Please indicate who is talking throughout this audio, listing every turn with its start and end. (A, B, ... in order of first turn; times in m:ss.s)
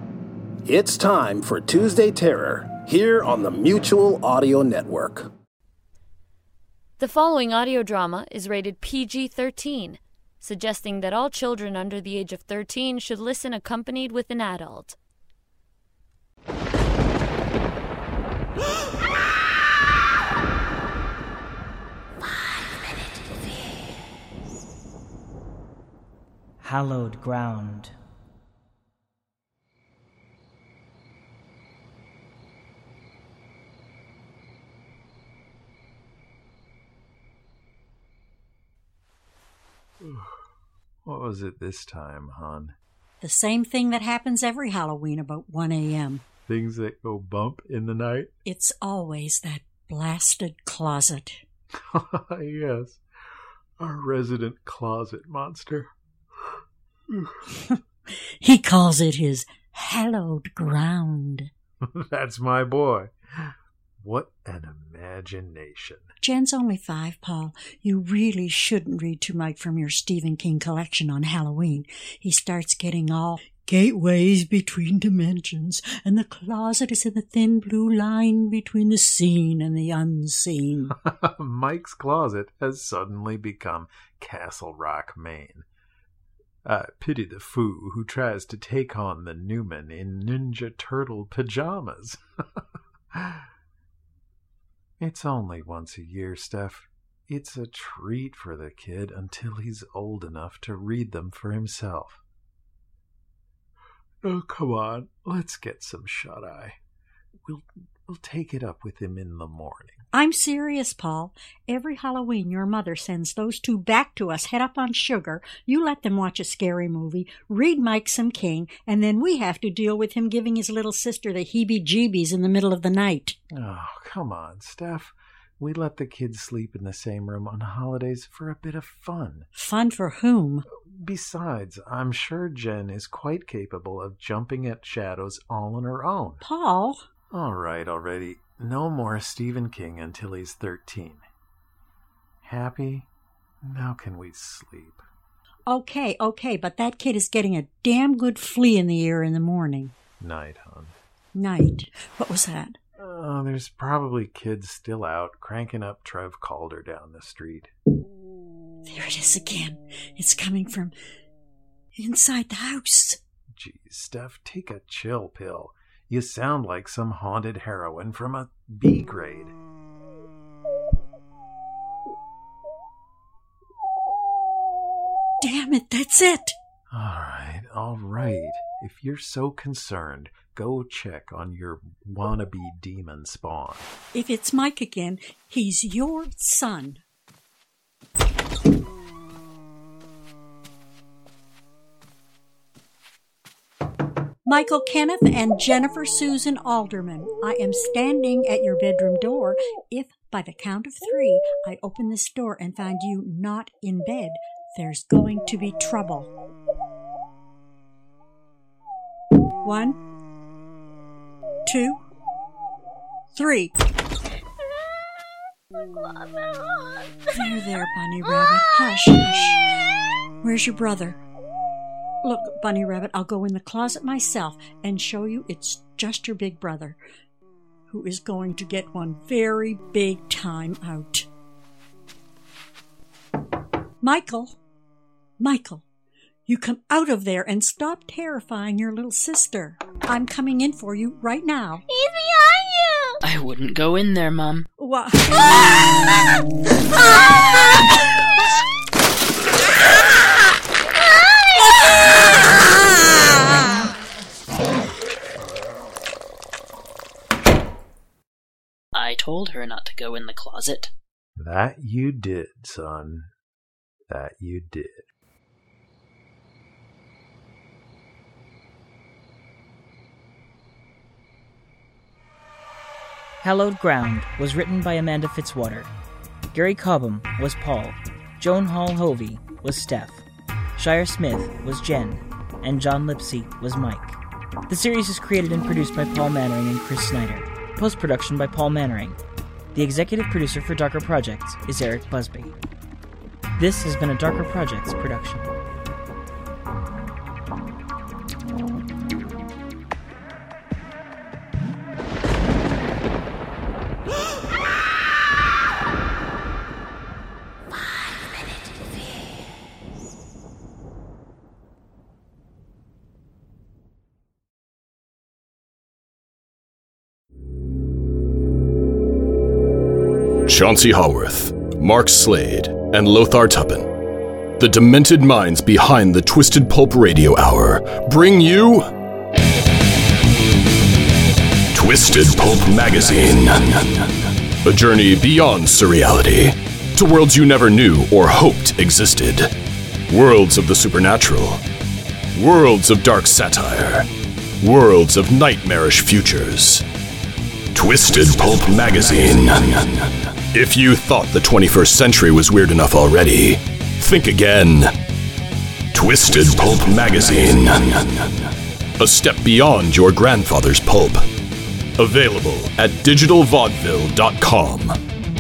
0:00.6-0:05.3 A
0:07.0-0:15.0 B
0:26.6-0:28.0 C
0:40.0-0:40.3 D
0:41.1-0:42.8 D
0:43.2-0:46.2 E
0:46.5-0:48.3 D
0:48.4-0:51.4 E
0:51.9-0:53.0 D
0:53.8-0:55.9 D
0:58.4-1:01.5 E
1:01.9-1:03.1 D
1:04.0-1:06.1 D
1:06.2-1:20.9 E
1:21.0-1:25.7 D
1:26.6-1:32.2 D
1:33.1-1:33.4 D
1:35.0-1:42.2 D
1:44.2-1:46.8 D
1:47.5-1:50.0 D
1:50.1-2:03.4 E
2:03.5-2:09.5 D
2:09.6-2:10.6 E
2:10.8-2:16.4 D
2:16.4-2:17.0 E
2:17.3-2:21.2 D
2:22.4-2:23.1 D
2:23.6-2:25.0 D
2:25.7-2:29.9 E
2:30.2-2:31.0 D
2:31.4-2:32.8 E
2:33.0-2:37.7 D
2:38.9-2:40.9 E
2:42.0-2:43.2 E
2:43.6-2:49.5 D
2:55.4-2:56.6 E
2:56.9-3:03.9 D
3:04.1-3:07.0 E
3:14.5-3:26.3 E
3:29.6-3:30.0 E
3:31.7-3:32.0 E
3:33.3-3:33.7 E
3:37.3-3:39.6 E
3:40.4-3:41.2 E
3:42.2-3:47.0 E
3:47.9-3:51.3 E
3:54.0-3:54.6 E
3:55.4-3:55.8 E
3:56.5-4:01.9 E
4:03.2-4:04.7 F
4:04.8-4:05.8 E
4:18.9-4:20.9 F
4:21.4-4:23.3 D
4:24.1-4:25.1 D
4:33.4-4:35.9 C
4:36.5-4:40.2 C
4:40.8-4:49.2 C
4:49.8-4:52.5 C
4:53.6-4:55.5 C
5:20.5-5:23.9 G
5:24.6-5:28.9 G
5:31.7-5:39.5 G
5:40.1-5:41.6 G
5:42.4-5:44.1 G
5:44.6-5:46.8 G
5:47.7-5:54.9 G
5:55.9-6:01.2 G
6:02.0-6:05.0 G